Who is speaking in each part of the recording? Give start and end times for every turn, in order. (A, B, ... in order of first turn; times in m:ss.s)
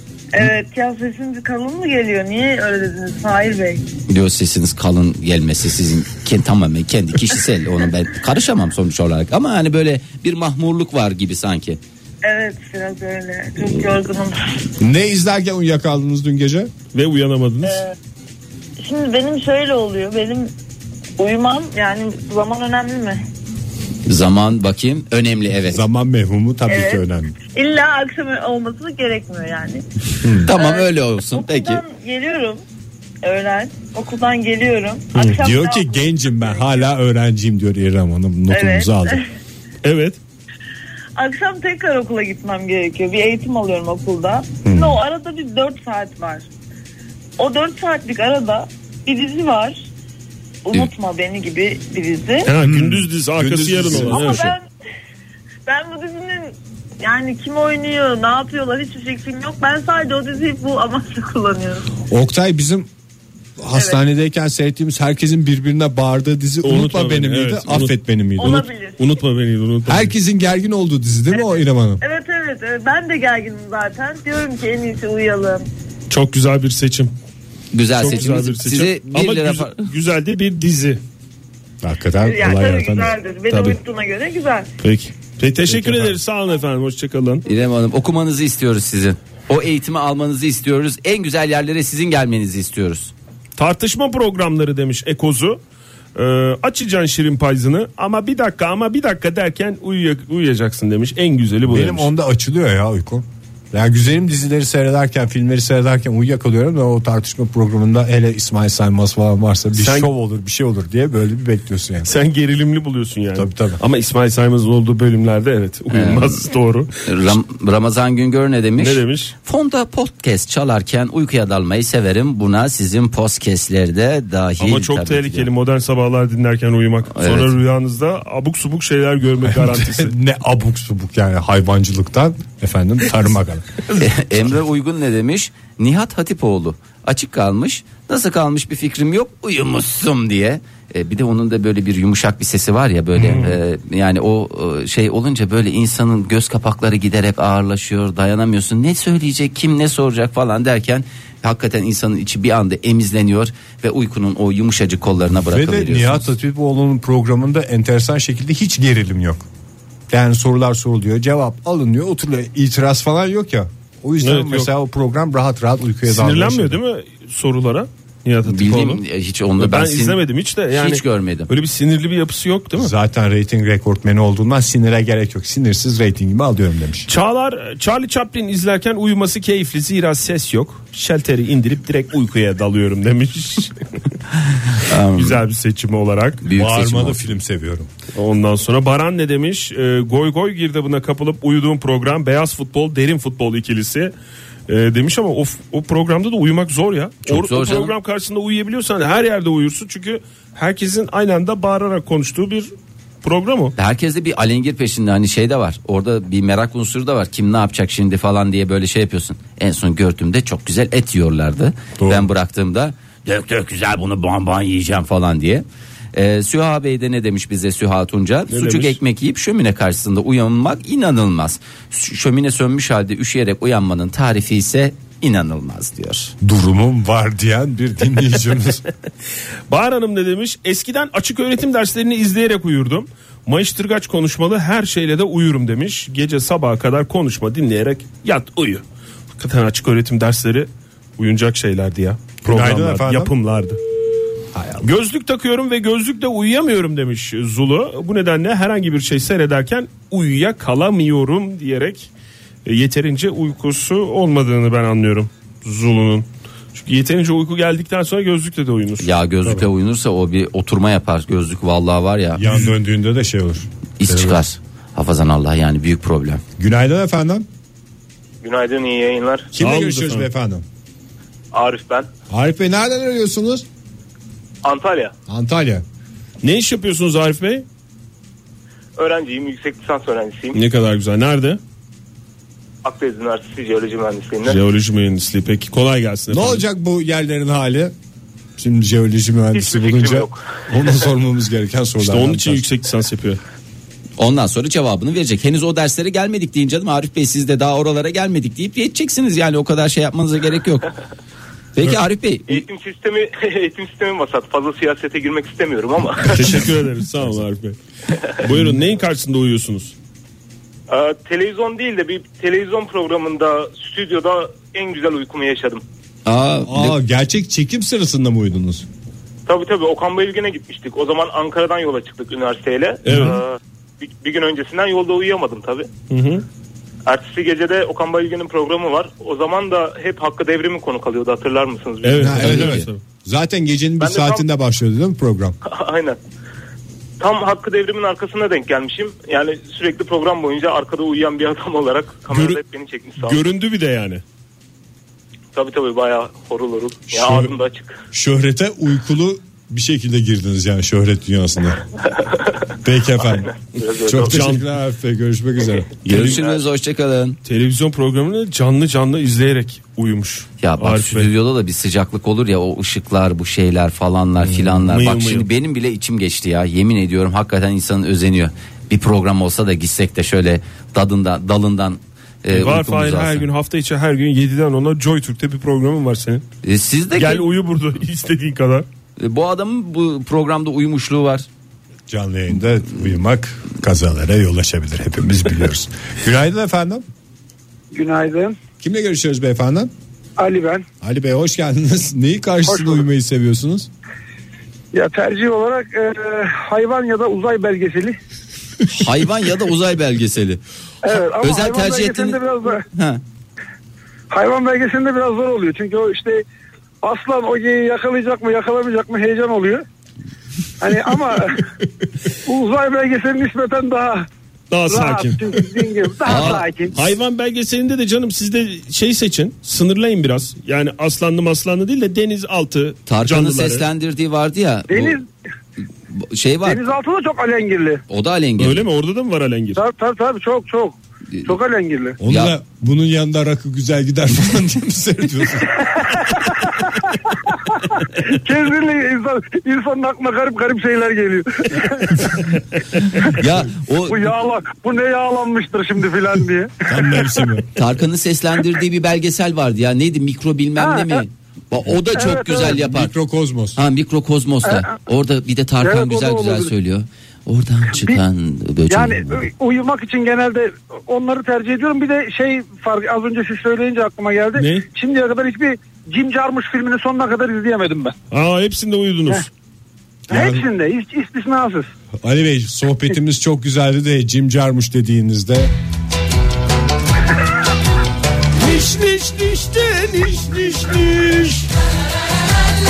0:00.3-0:03.8 A
0:04.1-0:11.8 B
0:12.2-0:14.5 A
0:14.8-0:16.7 C
0:16.9-0:17.8 D
0:17.6-0:17.9 A
0:18.8-0:20.5 A
0:21.2-0:23.2 A
0:24.1-0:25.8 B
0:25.6-0:27.3 C
0:26.7-0:29.8 A
0:30.2-0:30.5 C
0:30.4-0:31.8 B
0:30.5-0:32.6 A
0:33.2-0:36.9 A
0:35.2-0:39.2 C
0:38.5-0:39.2 A
0:39.8-0:40.2 D
0:41.2-0:46.5 A
0:44.6-0:45.0 C
0:47.4-0:49.8 A
0:50.6-0:52.5 A
0:52.4-0:54.5 D
0:52.6-0:54.5 C
0:54.0-0:54.7 A
0:55.6-1:01.9 A
1:02.1-1:02.9 C
1:03.6-1:08.6 C
1:06.6-1:10.1 D
1:08.4-1:09.1 A
1:09.8-1:12.0 C
1:11.3-1:15.6 A
1:16.1-1:17.1 D
1:17.7-1:19.7 B
1:17.9-1:21.0 D
1:21.8-1:23.2 C
1:22.2-1:24.7 A
1:23.5-1:23.8 D
1:24.8-1:27.4 D
1:25.7-1:26.2 C
1:27.4-1:33.1 B
1:33.6-1:35.6 D
1:36.1-1:42.1 D
1:41.7-1:52.1 C
1:49.8-1:50.1 D
1:52.0-1:57.4 D
1:53.3-1:53.8 C
1:55.9-1:56.4 B
1:57.0-2:05.5 B
1:58.8-1:59.3 D
2:04.6-2:10.1 D
2:07.1-2:07.5 B
2:09.4-2:13.8 C
2:13.9-2:36.3 B
2:23.2-2:23.5 D
2:35.5-2:39.4 C
2:40.1-2:46.8 C
2:44.2-2:44.7 D
2:46.0-2:49.0 D
2:48.4-2:51.5 B
2:49.6-2:52.9 D
2:52.8-2:57.1 C
2:57.1-3:03.8 D
3:04.7-3:05.4 B
3:05.1-3:06.4 D
3:06.4-3:07.2 B
3:06.5-3:07.9 C
3:08.1-3:14.1 D
3:14.7-3:22.7 D
3:17.2-3:17.9 B
3:23.2-3:23.7 D
3:23.8-3:46.3 B
3:32.0-3:32.3 C
3:38.5-3:39.0 D
3:46.4-3:48.8 C
3:49.7-3:58.8 D
3:59.4-4:03.8 D
4:02.4-4:03.3 C
4:04.5-4:04.9 C
4:04.8-4:12.1 D
4:12.6-4:19.1 D
4:19.0-4:22.6 B
4:22.4-4:24.4 C
4:24.0-4:26.4 B
4:26.6-4:27.4 C
4:28.4-4:29.5 E
4:29.5-4:30.6 C
4:29.6-4:30.3 D
4:31.5-4:32.1 E
4:32.3-4:33.6 C
4:34.6-4:35.1 E
4:35.3-4:35.8 C
4:36.4-4:37.6 D
4:39.0-4:40.6 E
4:40.5-4:41.6 D
4:42.8-4:44.6 E
4:44.4-4:46.6 D
4:46.3-4:47.9 C
4:48.6-4:52.6 C
4:49.5-4:50.4 E
4:52.0-4:53.4 D
4:54.2-5:00.9 B
5:01.8-5:02.6 B
5:02.5-5:06.6 E
5:06.2-5:07.8 D
5:08.4-5:09.9 D
5:10.9-5:15.8 E
5:16.2-5:17.0 B
5:16.7-5:18.8 C
5:19.5-5:25.9 E
5:23.0-5:23.4 D
5:26.1-5:26.4 D
5:27.0-5:32.6 E
5:32.0-5:33.0 D
5:32.2-5:35.6 C
5:32.4-5:32.8 B
5:34.0-5:34.4 E
5:35.6-5:36.2 E
5:37.2-5:43.4 E
5:42.3-5:42.6 D
5:43.2-5:44.2 D
5:45.5-5:47.9 E
5:47.2-5:47.5 C
5:48.1-5:51.8 C
5:52.2-5:52.5 E
5:52.8-5:53.5 C
5:53.2-5:54.4 E
5:54.0-5:55.9 C
5:54.2-5:54.6 D
5:56.0-5:57.4 B
5:56.1-5:56.4 D
5:56.2-5:56.6 E
5:57.4-6:01.3 D
6:00.6-6:13.5 B
6:04.5-6:05.5 D
6:12.5-6:16.4 D
6:16.6-6:17.4 B
6:17.1-6:18.8 D
6:19.2-6:21.5 B
6:22.1-6:27.0 C
6:27.9-6:28.6 F
6:28.8-6:29.9 C
6:30.4-6:30.8 F
6:31.0-6:33.9 C
6:32.7-6:33.0 F
6:34.9-6:38.2 F
6:38.9-6:40.6 B
6:41.0-6:42.8 F
6:41.4-6:43.2 B
6:44.3-6:46.4 F
6:47.0-6:49.8 F
6:50.8-6:51.6 F
6:52.4-6:54.3 F
6:54.7-6:55.6 D
6:54.9-6:57.0 F
6:56.2-6:56.6 B
6:56.2-7:03.8 D
7:03.1-7:05.2 B
7:04.9-7:05.3 F
7:06.1-7:06.8 B
7:06.6-7:08.0 F
7:08.1-7:08.8 B
7:08.6-7:09.8 D
7:09.8-7:12.2 F
7:12.2-7:15.8 C
7:12.2-7:12.5 B
7:16.2-7:16.9 F
7:18.2-7:22.4 F
7:23.2-7:24.3 B
7:24.1-7:26.8 F
7:26.9-7:27.7 C
7:27.7-7:33.1 B
7:30.8-7:31.2 F
7:32.1-7:32.7 F
7:32.6-7:33.8 C
7:33.8-7:39.5 B
7:34.6-7:34.9 F
7:35.8-7:36.7 F
7:37.9-7:38.2 F
7:38.9-7:48.1 F
7:44.6-7:44.8 D
7:48.3-7:49.5 D
7:50.3-7:50.7 C
7:50.3-7:51.9 F
7:52.2-7:55.7 C
7:58.6-8:01.6 D